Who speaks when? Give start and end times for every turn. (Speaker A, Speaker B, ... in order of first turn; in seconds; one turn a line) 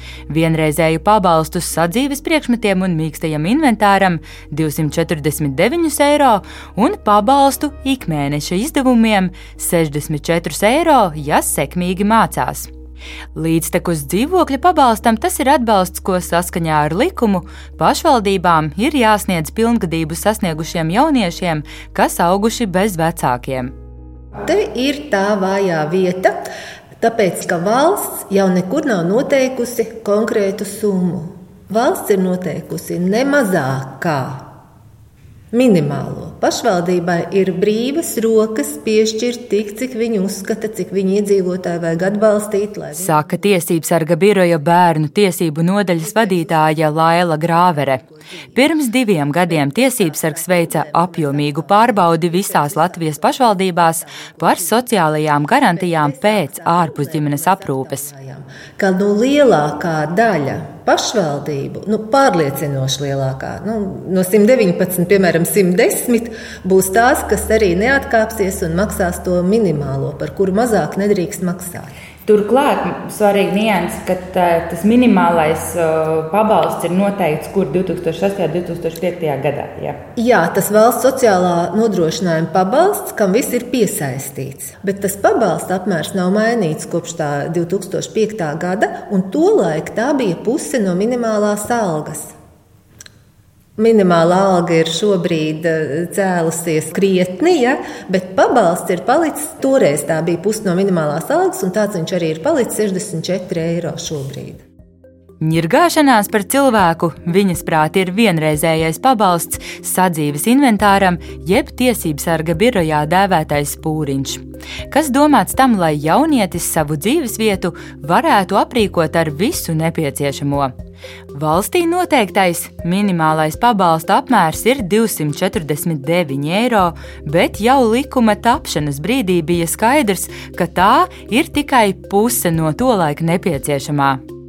Speaker A: 0.3-12.7
Speaker A: 13.3-23.7
Speaker B: 24.4-34.5
Speaker B: 35.5-43.1
Speaker A: 42.9-48.0
Speaker B: 46.2-46.5
Speaker A: 48.5-58.1
Speaker B: 49.5-53.2
Speaker B: 54.1-54.5
Speaker B: 55.7-71.9
Speaker C: 72.2-80.0
Speaker B: 80.2-92.3
Speaker B: 93.8-104.6
Speaker A: 105.4-120.7
Speaker A: 121.3-134.2